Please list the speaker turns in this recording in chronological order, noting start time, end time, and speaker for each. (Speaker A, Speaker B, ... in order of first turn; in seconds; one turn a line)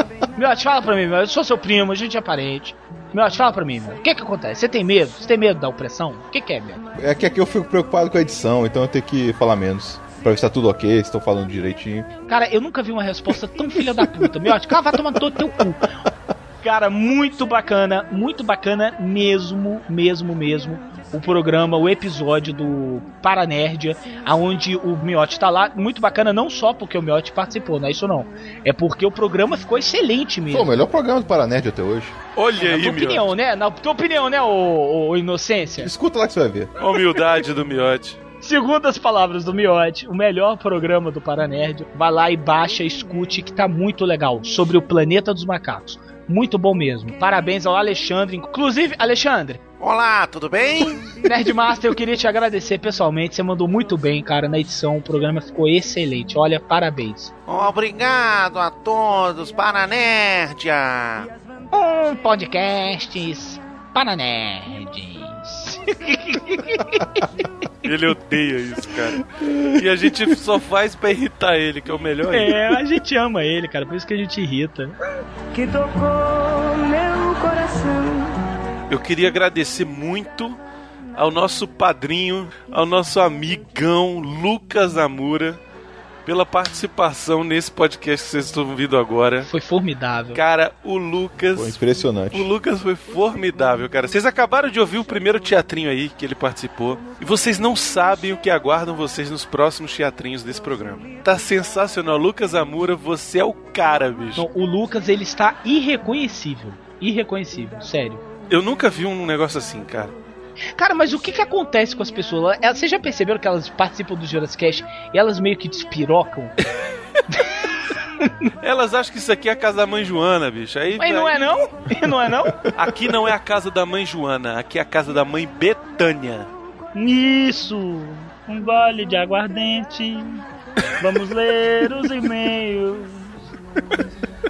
Speaker A: 0.4-6.8
Speaker B: 7.0-12.1
Speaker A: 12.3-15.8
Speaker A: 16.6-30.8
Speaker B: 30.5-32.1
Speaker C: 32.4-33.3
Speaker A: 32.6-35.9
Speaker B: 35.8-36.7
Speaker C: 36.8-38.2
Speaker A: 38.4-49.6
Speaker D: 49.8-51.2
Speaker A: 51.2-57.3
Speaker D: 57.5-61.3
Speaker A: 61.7-67.4
Speaker C: 67.8-72.7
Speaker A: 72.3-75.0
Speaker E: 75.5-78.4
Speaker C: 78.9-80.6
Speaker C: 81.2-85.6
Speaker C: 86.3-89.5
Speaker A: 89.5-90.4
Speaker C: 90.3-91.8
Speaker B: 91.5-92.5
Speaker C: 92.3-104.5
Speaker A: 104.4-108.2
Speaker C: 108.5-110.2
Speaker A: 110.8-116.5
Speaker A: 117.3-118.5
Speaker C: 118.6-121.4
Speaker A: 121.0-122.6
Speaker C: 122.8-126.5
Speaker F: 127.0-130.4
Speaker F: 131.0-133.3